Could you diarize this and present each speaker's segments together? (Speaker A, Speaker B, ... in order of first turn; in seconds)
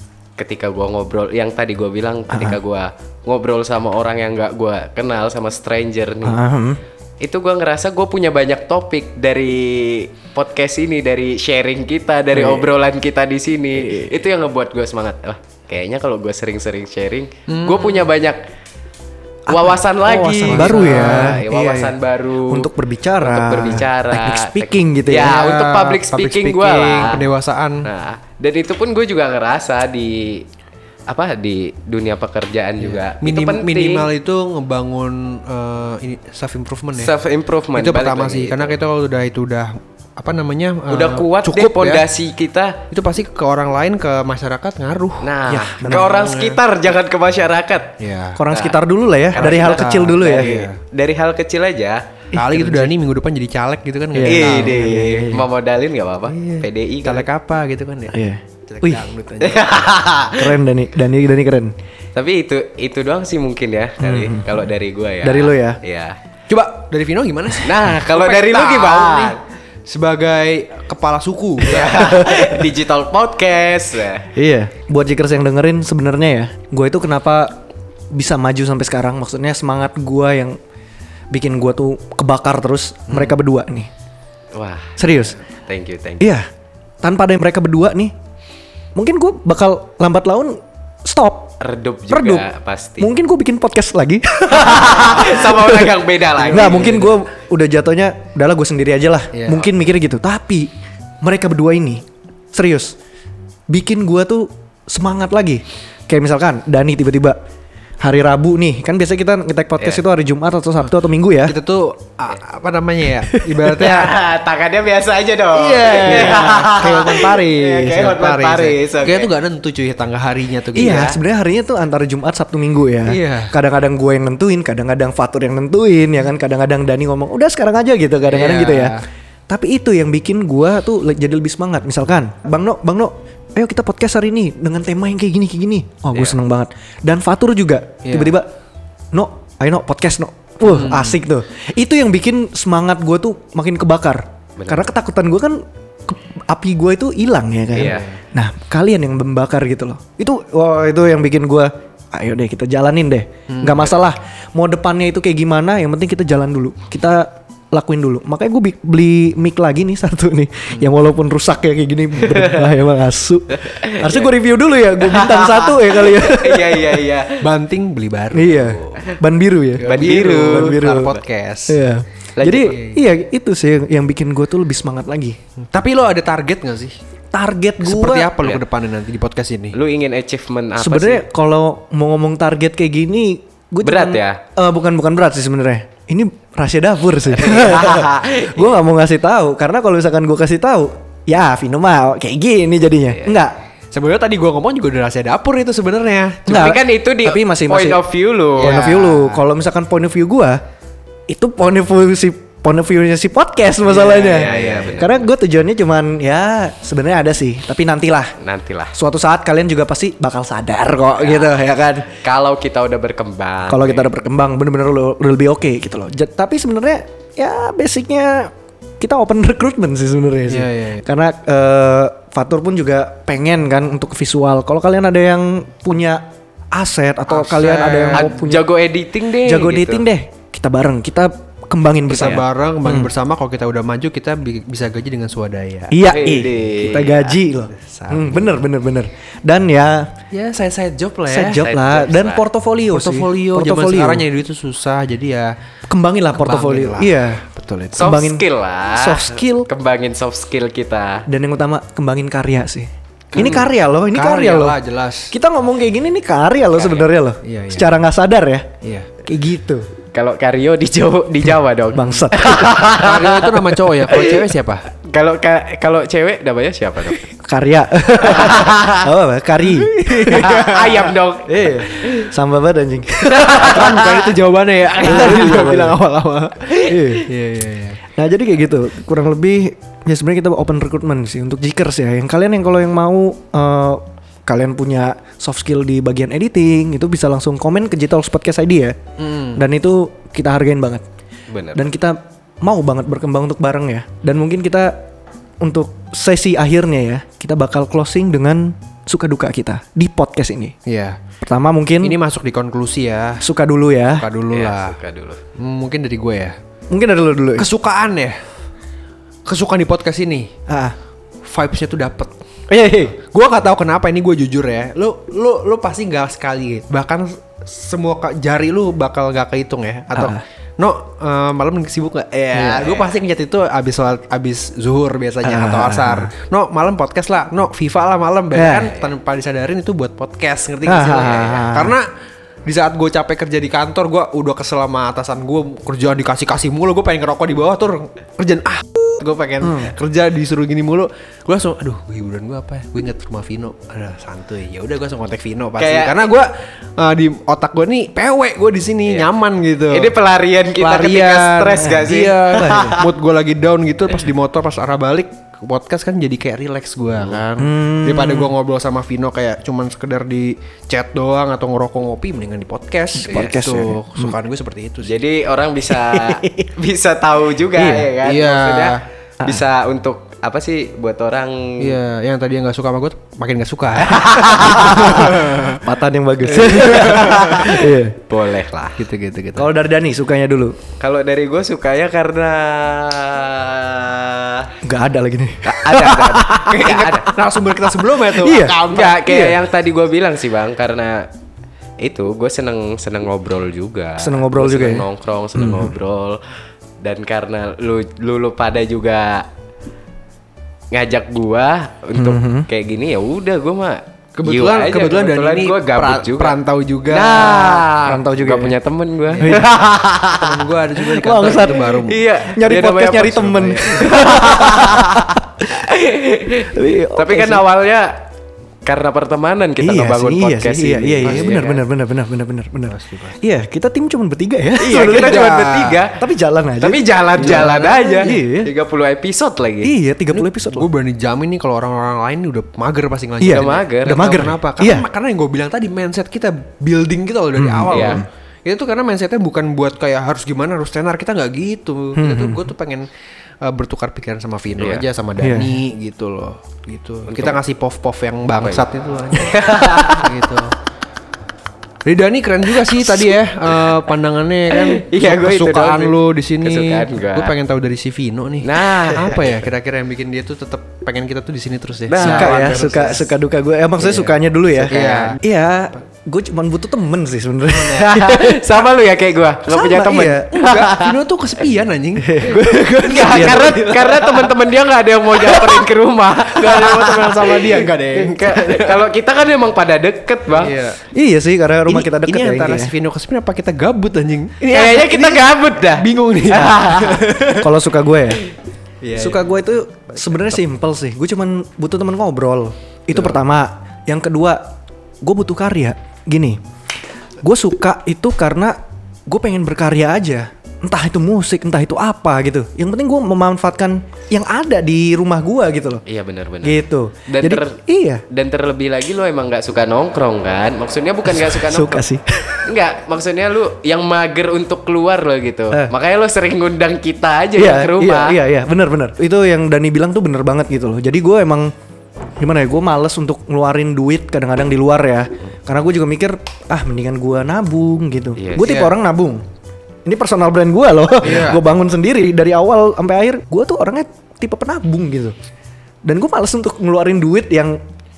Speaker A: 0.4-6.4, 7.2-18.4, 19.5-22.7, 23.2-27.3, 27.8-30.4, 31.1-34.1, 37.0-38.8, 40.9-42.8, 45.2-47.9, 48.5-48.8, 49.3-52.0, 54.2-57.2, 59.4-60.5, 62.1-66.2, 67.6-69.4, 71.6-74.3, 84.5-85.0, 85.7-86.3, 91.6-93.1, 94.5-97.2, 113.7-119.3, 120.8-121.2, 144.6-144.8, 147.7-148.1, 163.6-164.3, 165.0-167.4, 169.8-171.1, 172.4-172.8, 179.7-181.2, 183.8-184.4, 187.3-188.7, 196.5-198.8, 203.9-205.2, 208.4-208.9, 211.2-211.5, 212.2-214.1, 228.1-230.0, 236.0-237.3, 241.6-242.4, 247.9-251.2, 256.7-257.1, 260.1-263.5, 265.0-267.3, 268.2-269.1, 270.3-272.2, 273.3-274.3, 274.9-275.7, 291.5-291.9, 304.5-305.4, 322.5-323.1, 331.1-331.6, 345.8-346.2, 349.9-353.1, 363.3-363.5, 365.0-371.9, 374.1-375.3, 376.6-379.0, 381.0-384.7, 385.6-387.3, 388.9-391.3, 392.0-396.4, 397.0-399.5, 400.9-410.6, 411.6-418.2, 418.8-421.8, 424.8-426.2, 426.8-429.9, 433.5-434.4, 437.9-438.2, 444.8-445.0, 447.3-447.6, 448.6-450.3, 454.7-457.5, 458.6-459.6, 462.1-463.2, 464.0-465.4, 467.9-471.1, 473.0-480.8, 484.7-487.2, 506.1-507.8, 508.3-512.0, 512.6-518.4, 528.4-528.8
Speaker B: 2.3-2.6, 6.2-6.8, 12.3-12.7, 19.5-21.9, 22.5-25.4, 45.5-46.1, 48.4-50.5, 52.3-52.9, 54.1-55.5, 58.1-59.0, 60.4-61.7, 64.0-64.5, 65.2-65.8, 74.3-77.6, 78.1-80.6, 81.3-83.9, 85.0-85.3, 86.2-86.5, 87.0-88.1, 88.9-91.6, 92.1-92.5, 93.0-103.0, 103.7-107.4, 108.0-111.6, 113.3-113.8, 120.7-138.5, 139.1-167.1, 168.3-175.4, 177.3-178.3, 180.8-193.6, 196.5-198.0, 198.6-200.6, 201.3-208.3, 208.9-212.1, 213.7-228.7, 229.4-233.1, 235.9-240.1, 241.3-244.2, 245.9-247.4, 248.0-249.7, 251.3-254.8, 255.3-258.7, 259.2-259.9, 261.9-262.9, 267.4-270.5, 271.5-273.9, 275.0-276.0, 276.9-277.3, 278.1-288.9, 289.5-291.0, 291.7-295.1, 295.6-300.7, 301.4-302.2, 303.4-304.3, 306.9-307.7, 310.7-310.9, 312.7-313.2, 320.1-320.4, 325.4-326.3, 328.5-328.9, 330.8-332.0, 339.6-339.9, 351.8-353.0, 357.6-358.5, 363.2-364.3, 365.9-366.7, 367.8-368.1, 374.5-378.2, 379.6-380.8, 384.8-386.9, 388.3-389.6, 394.2-395.9, 402.1-402.7, 408.0-408.8, 409.4-409.7, 411.1-415.6, 416.6-417.6, 419.8-428.7, 429.8-430.9, 433.4-435.1, 437.6-438.2, 442.1-442.6, 445.4-445.8, 462.2-468.6, 469.7-470.5, 472.2-473.8, 481.1-482.9, 487.6-488.4, 489.1-496.6, 497.4-506.0, 506.6-508.2, 511.2-512.6, 517.5-521.7, 522.4-529.4, 530.0-535.4, 536.0-537.8
Speaker C: 17.5-18.1, 20.5-21.4, 25.2-27.9, 32.8-37.1, 37.7-42.1, 42.9-45.3, 45.8-46.6, 48.0-48.4, 49.3-50.8, 52.3-55.1, 56.3-58.1, 58.7-59.9, 66.5-72.3, 96.5-96.9, 99.3-99.7, 111.4-114.2, 115.5-121.1, 123.0-123.5, 128.3-129.0, 138.0-138.4, 140.6-141.2, 147.8-148.2, 153.5-153.9, 167.3-169.0, 169.8-171.8, 172.5-173.0, 175.7-176.9, 177.8-179.8, 193.9-196.7, 198.6-199.4, 203.8-205.1, 220.5-221.0, 227.3-228.4, 232.1-236.0, 237.5-238.5, 240.3-241.6, 242.9-245.5, 246.3-248.1, 253.3-255.3, 257.4-257.9, 258.8-259.1, 262.9-264.8, 269.8-271.1, 273.4-278.0, 289.2-289.6, 300.9-301.2, 302.0-303.4, 304.1-305.0, 305.5-306.6, 307.6-308.4, 309.4-310.5, 311.4-312.3, 313.2-332.1, 332.6-350.1, 350.8-365.2, 368.2-369.0, 371.8-375.8, 376.6-377.7, 379.0-379.7, 386.4-389.5, 404.4-407.9, 409.3-409.6, 410.3-412.3, 413.6-414.2, 421.2-421.6, 422.9-423.4, 424.8-426.0, 427.4-428.3, 430.3-443.1, 443.6-450.7, 452.0-463.3, 464.9-465.4, 467.7-468.2, 470.3-474.5, 475.4-475.8, 476.5-479.0, 480.5-481.0, 481.9-487.7, 489.0-489.5, 490.1-490.6, 528.6-528.9, 531.2-531.6